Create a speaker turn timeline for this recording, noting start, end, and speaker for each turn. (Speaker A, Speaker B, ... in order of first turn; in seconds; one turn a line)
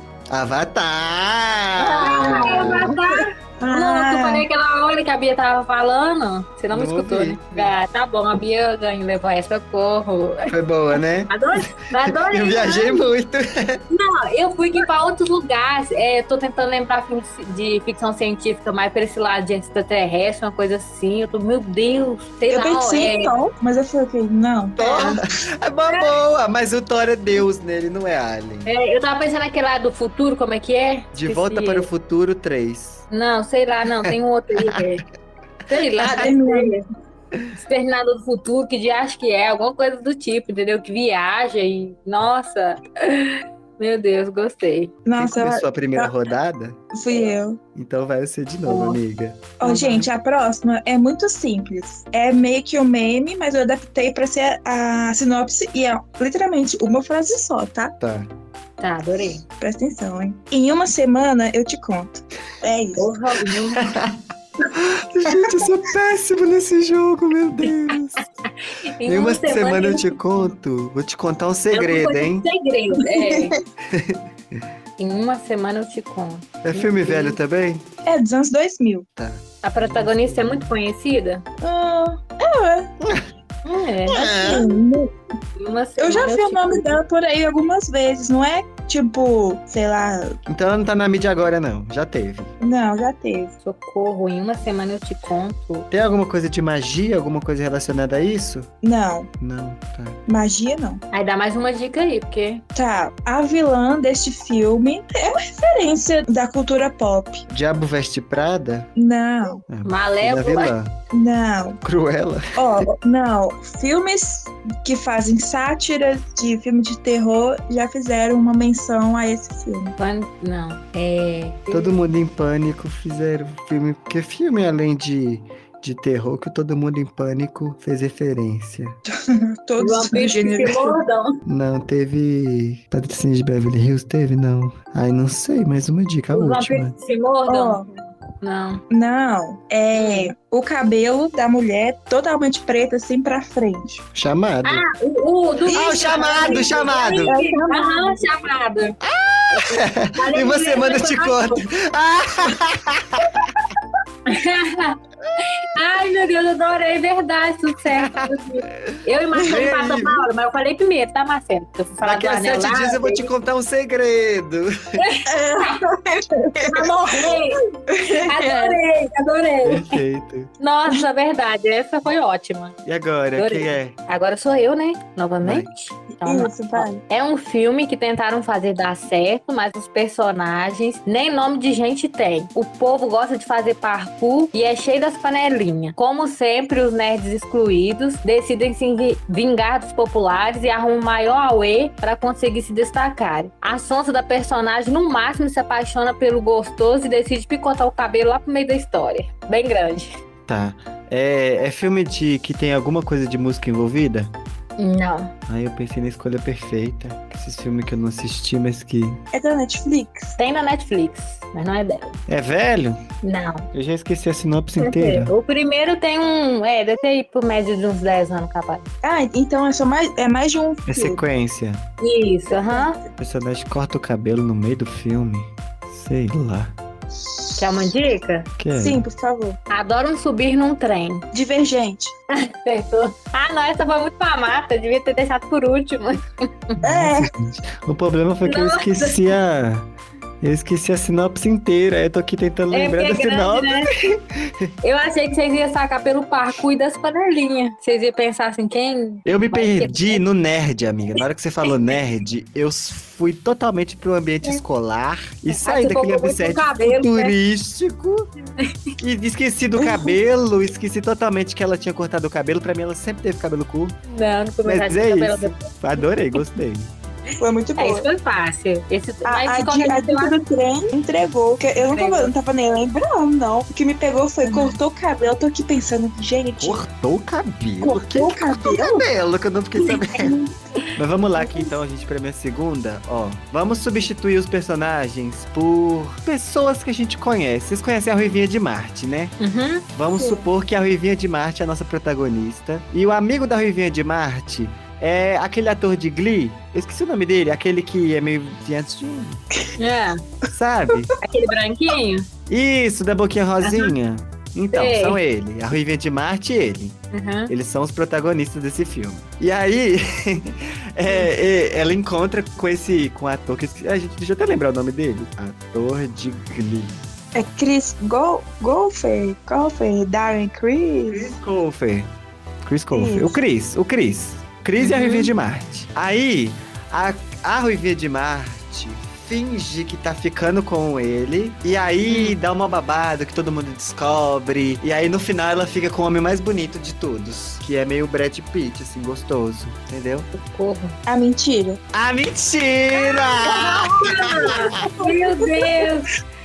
Speaker A: 0.3-3.0
Speaker B: 1.8-10.5
Speaker C: 2.0-4.5
Speaker A: 6.7-7.7
Speaker A: 10.5-13.8
Speaker B: 11.3-13.1
Speaker B: 13.9-23.4
Speaker C: 22.5-25.2
Speaker B: 24.8-25.2
Speaker A: 24.8-28.7
Speaker B: 28.6-31.9
Speaker A: 31.1-33.1
Speaker B: 33.1-35.0
Speaker A: 34.0-34.8
Speaker B: 35.7-36.9
Speaker C: 36.0-36.8
Speaker B: 37.5-45.0
Speaker C: 45.0-46.1
Speaker A: 45.2-46.8
Speaker C: 46.9-47.6
Speaker A: 47.8-49.5
Speaker B: 48.7-49.0
Speaker C: 49.6-58.0
Speaker B: 49.6-50.1
Speaker A: 58.0-58.3
Speaker B: 58.8-59.4
Speaker C: 59.6-63.1
Speaker B: 63.0-64.0
Speaker A: 63.8-64.2
Speaker A: 64.7-68.2
Speaker B: 69.0-70.2
Speaker A: 69.0-72.5
Speaker B: 71.7-73.6
Speaker C: 73.1-73.6
Speaker A: 73.9-74.6
Speaker B: 75.0-77.4
Speaker A: 76.6-77.8
Speaker C: 78.1-79.1
Speaker A: 79.2-80.7
Speaker B: 79.6-81.4
Speaker C: 81.6-82.9
Speaker A: 83.0-83.3
Speaker B: 83.7-84.5
Speaker A: 84.1-84.7
Speaker C: 84.2-85.1
Speaker B: 85.6-87.0
Speaker C: 86.0-90.4
Speaker A: 90.5-92.5
Speaker C: 92.6-93.5
Speaker B: 93.6-95.9
Speaker A: 95.9-98.7
Speaker C: 98.8-99.3
Speaker A: 99.4-100.2
Speaker C: 100.3-101.0
Speaker B: 101.1-102.6
Speaker C: 102.8-107.5
Speaker A: 107.5-108.9
Speaker C: 109.0-109.6
Speaker A: 109.7-111.0
Speaker B: 109.8-110.7
Speaker C: 111.1-111.8
Speaker A: 111.8-112.9
Speaker C: 112.5-120.0
Speaker B: 120.0-122.0
Speaker A: 121.7-129.0
Speaker C: 129.1-131.0
Speaker B: 129.8-131.4
Speaker A: 131.5-136.9
Speaker B: 136.3-138.8
Speaker C: 137.5-137.9
Speaker C: 138.9-144.1
Speaker B: 139.9-140.3
Speaker A: 144.2-144.8
Speaker B: 144.6-149.0
Speaker C: 145.7-148.2
Speaker A: 145.7-147.3
Speaker A: 149.0-153.4
Speaker B: 149.5-151.7
Speaker B: 154.3-163.3
Speaker A: 158.0-160.3
Speaker A: 162.0-165.0
Speaker B: 165.0-165.8
Speaker C: 165.3-168.8
Speaker B: 166.6-167.7
Speaker B: 168.2-170.0
Speaker A: 169.6-170.5
Speaker B: 170.6-172.8
Speaker A: 172.8-173.9
Speaker B: 173.4-200.2
Speaker A: 175.4-175.7
Speaker C: 176.2-177.0
Speaker A: 200.5-204.3
Speaker B: 204.8-205.3
Speaker A: 205.5-209.2
Speaker C: 209.3-210.4
Speaker B: 210.4-212.2
Speaker A: 212.3-213.0
Speaker B: 213.2-213.7
Speaker A: 213.7-215.3
Speaker B: 214.8-218.9
Speaker C: 219.0-221.2
Speaker A: 220.9-221.8
Speaker B: 222.0-223.0
Speaker C: 222.5-223.1
Speaker A: 223.2-226.8
Speaker C: 227.3-227.9
Speaker B: 227.6-228.5
Speaker A: 228.6-229.1
Speaker C: 228.7-229.6
Speaker B: 229.7-231.2
Speaker C: 231.3-232.1
Speaker B: 232.3-236.8
Speaker A: 236.8-239.9
Speaker C: 236.8-237.3
Speaker B: 238.4-239.2
Speaker A: 240.4-244.7
Speaker B: 242.7-243.9
Speaker B: 244.8-250.2
Speaker A: 249.2-258.3
Speaker B: 255.5-257.4
Speaker A: 259.0-264.0
Speaker C: 259.8-260.1
Speaker B: 264.1-265.7
Speaker A: 264.6-266.9
Speaker C: 267.4-268.1
Speaker B: 267.8-270.4
Speaker C: 269.2-276.8
Speaker B: 271.8-272.3
Speaker B: 274.4-274.8
Speaker A: 276.6-280.3
Speaker C: 277.8-279.1
Speaker C: 280.0-280.5
Speaker A: 281.0-289.4
Speaker C: 281.4-281.7
Speaker B: 289.4-289.9
Speaker A: 289.9-299.4
Speaker C: 290.1-290.5
Speaker B: 299.8-300.2
Speaker A: 300.5-301.1
Speaker B: 301.2-302.3
Speaker A: 302.5-307.0
Speaker B: 303.6-303.9
Speaker B: 304.7-305.2
Speaker B: 307.1-307.5
Speaker A: 307.5-317.0
Speaker C: 317.4-321.3
Speaker A: 321.1-322.1
Speaker A: 322.6-340.3
Speaker C: 322.9-323.4
Speaker B: 324.8-325.3
Speaker B: 332.1-332.4
Speaker B: 340.3-341.0
Speaker C: 341.1-341.8
Speaker A: 341.9-344.8
Speaker B: 343.2-346.1
Speaker C: 344.8-345.9